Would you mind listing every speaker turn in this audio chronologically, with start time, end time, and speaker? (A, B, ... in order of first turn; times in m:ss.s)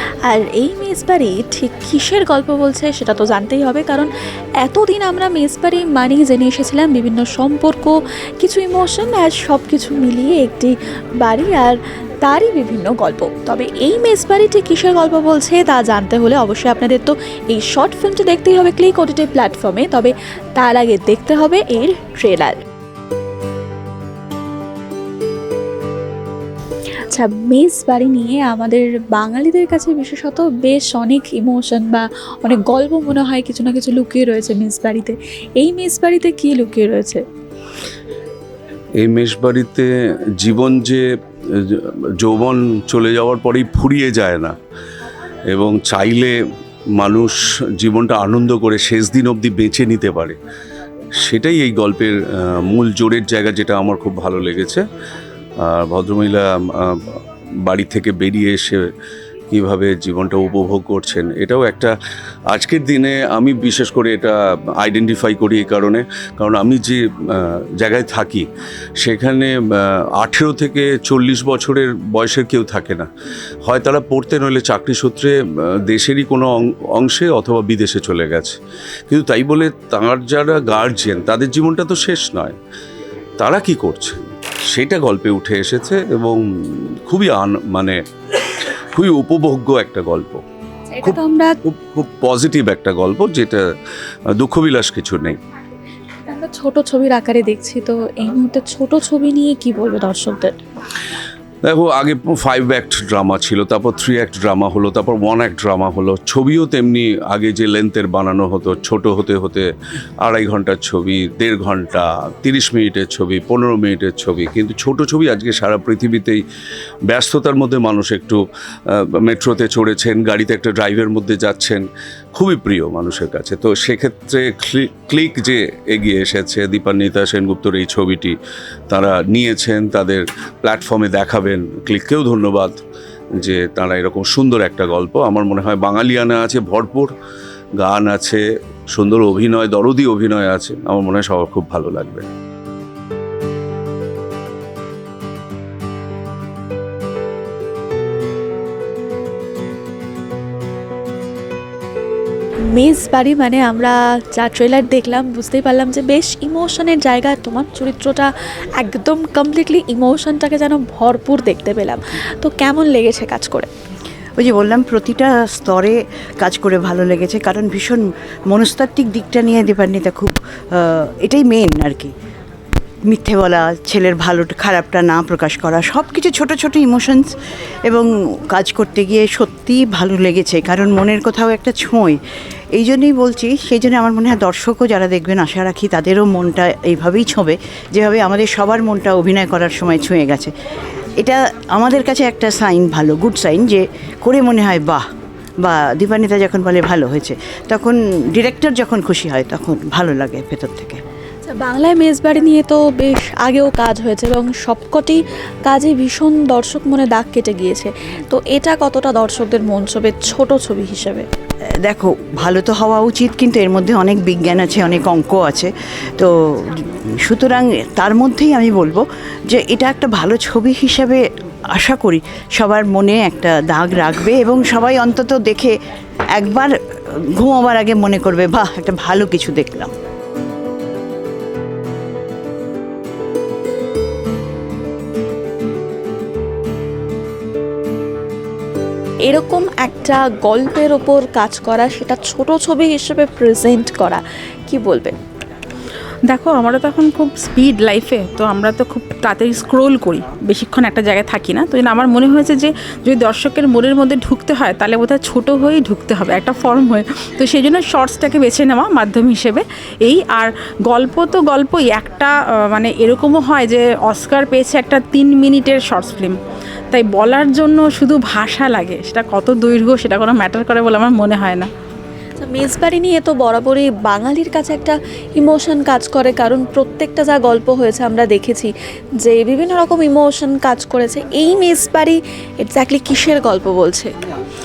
0:00.2-0:22.6 A
0:27.1-0:37.2 A
0:39.0-0:39.9 B
0:40.4-0:41.0 B
0:41.6-0:44.5 B
0:45.5-0:46.3 B
0:47.0-0:50.3 B
0:51.2-0:52.2 B
0:52.7-0:54.8 B
0:55.7-0:57.0 B
0:57.6-0:58.8 B
0:59.5-1:01.9 B
1:02.5-1:08.4 B
1:09.0-1:09.5 B
1:10.2-1:13.0 B
1:13.6-1:15.3 B
1:15.9-1:18.6 B
1:19.1-1:22.6 B
1:23.4-1:24.2 B
1:24.7-1:26.4 B
1:27.1-1:28.0 B
1:28.5-1:30.4 B
1:30.9-1:31.6 A
1:31.0-1:33.6 B
1:34.4-1:35.4 B
1:36.3-1:40.5 A
1:41.6-1:49.7 B
1:50.2-1:56.4 B
1:57.1-1:58.4 B
1:59.2-2:01.8 B
2:02.4-2:08.3 B
2:08.9-2:12.8 B
2:13.4-2:17.1 B
2:17.8-2:22.2 B
2:32.7-2:43.7 A
2:44.4-2:52.1 C
2:53.1-2:57.3 C
2:57.9-3:02.2 C
3:02.7-3:10.5 C
3:11.2-3:15.0 C
3:15.6-3:21.0 C
3:21.5-3:31.2 A
3:31.8-3:41.2 C
3:41.8-3:45.7 C
3:46.4-3:46.7 C
3:47.4-3:49.9 C
3:59.2-4:05.1 A
4:06.3-4:26.4 D
4:26.9-4:31.7 D
4:32.4-4:44.1 A